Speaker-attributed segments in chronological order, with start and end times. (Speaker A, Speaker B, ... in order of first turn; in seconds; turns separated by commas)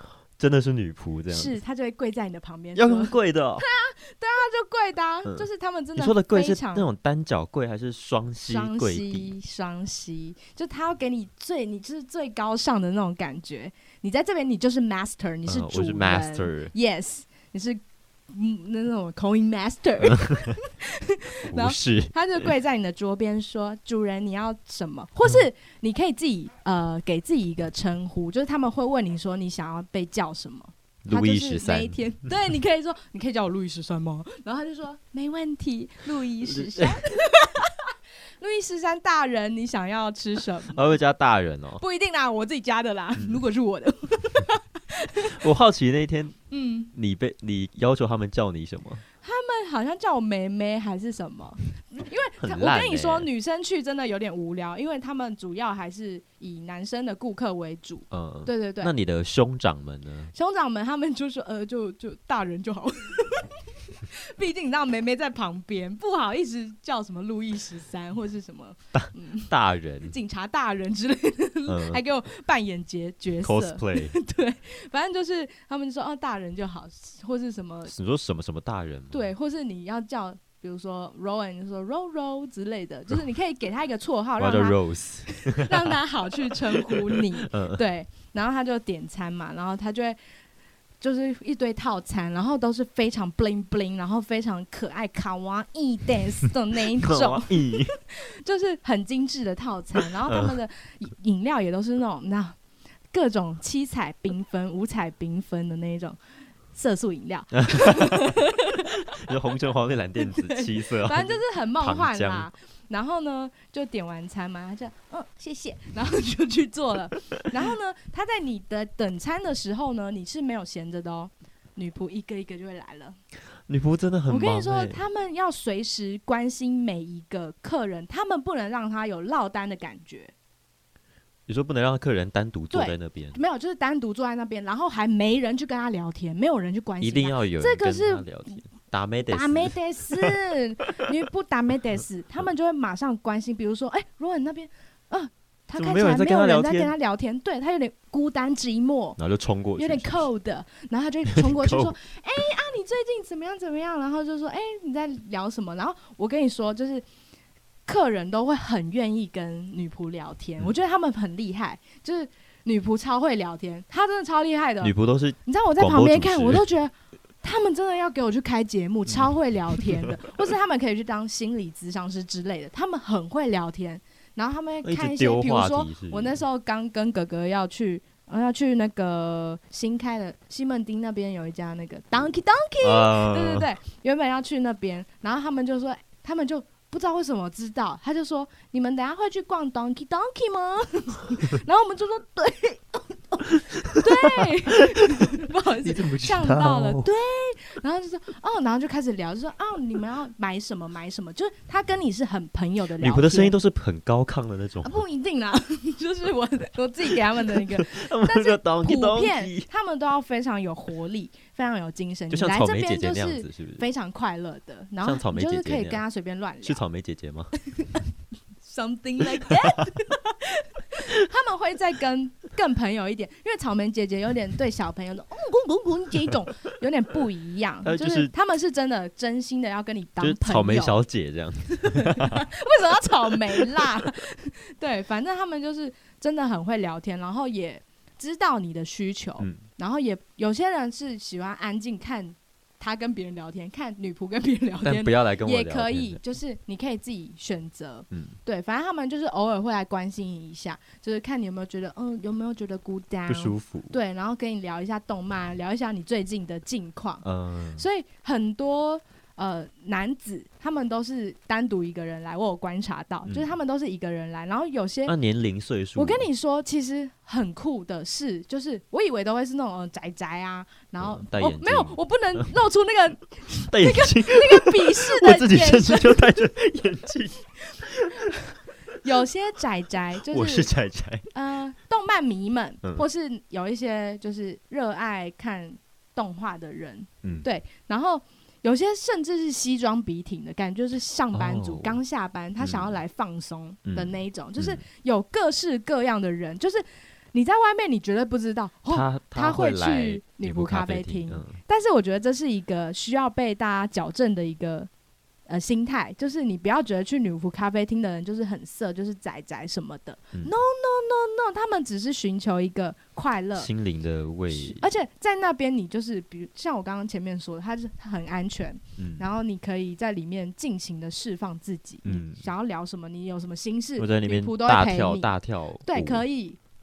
Speaker A: 0.4-1.6, Speaker B: 1.3-6.9, Speaker A: 2.8-3.6, Speaker A: 5.3-9.3, Speaker B: 8.5-40.9, Speaker A: 15.5-16.7, Speaker A: 20.0-20.6, Speaker A: 21.5-22.4, Speaker A: 31.1-32.0, Speaker A: 36.5-37.0, Speaker A: 40.7-41.8, Speaker B: 41.8-45.4, Speaker A: 43.2-43.4, Speaker A: 45.2-46.4, Speaker B: 46.5-46.9, Speaker A: 46.9-49.0, Speaker B: 49.2-58.9, Speaker A: 52.4-53.3, Speaker A: 58.1-60.3, Speaker B: 60.3-69.5, Speaker A: 69.0-70.2, Speaker B: 70.0-77.9, Speaker A: 71.7-72.0, Speaker A: 73.4-74.2, Speaker A: 77.9-79.3, Speaker B: 79.1-90.2, Speaker A: 84.4-86.0, Speaker A: 86.8-87.8, Speaker B: 91.0-102.6, Speaker A: 96.7-97.9, Speaker A: 100.3-100.5, Speaker B: 103.1-106.2, Speaker B: 106.7-109.2, Speaker A: 107.6-108.4, Speaker A: 109.1-112.5, Speaker B: 110.2-123.2, Speaker A: 123.7-125.0, Speaker B: 124.3-130.3, Speaker A: 131.5-133.4, Speaker B: 132.7-138.3, Speaker A: 137.0-140.3, Speaker B: 139.3-149.2, Speaker A: 145.8-146.9, Speaker A: 149.2-150.2, Speaker B: 149.8-157.1, Speaker A: 151.3-151.9, Speaker B: 157.9-164.9, Speaker A: 164.8-166.7, Speaker B: 165.4-203.6, Speaker A: 174.8-176.4, Speaker A: 182.8-183.7, Speaker A: 193.8-194.5, Speaker A: 195.8-197.1, Speaker A: 203.0-205.0, Speaker B: 204.8-216.8, Speaker A: 207.4-209.7, Speaker A: 212.3-213.8, Speaker A: 215.0-216.0, Speaker A: 216.6-217.5, Speaker B: 217.7-218.0, Speaker B: 218.6-231.0, Speaker A: 227.8-228.3, Speaker A: 230.2-232.5, Speaker B: 231.8-257.2, Speaker A: 244.8-246.2, Speaker A: 253.3-253.9, Speaker A: 257.2-257.9, Speaker B: 257.8-265.1, Speaker A: 265.1-266.3, Speaker B: 266.0-276.4, Speaker A: 271.0-272.5, Speaker A: 273.7-278.3, Speaker B: 279.0-280.7, Speaker A: 280.3-281.3, Speaker B: 281.3-304.9, Speaker A: 291.3-292.0, Speaker A: 292.6-292.9, Speaker A: 293.9-294.8, Speaker A: 298.9-301.6, Speaker B: 305.5-313.7, Speaker A: 313.6-314.9, Speaker B: 314.5-325.3, Speaker A: 319.0-319.2, Speaker A: 322.0-322.4, Speaker A: 324.0-326.2, Speaker B: 325.9-326.6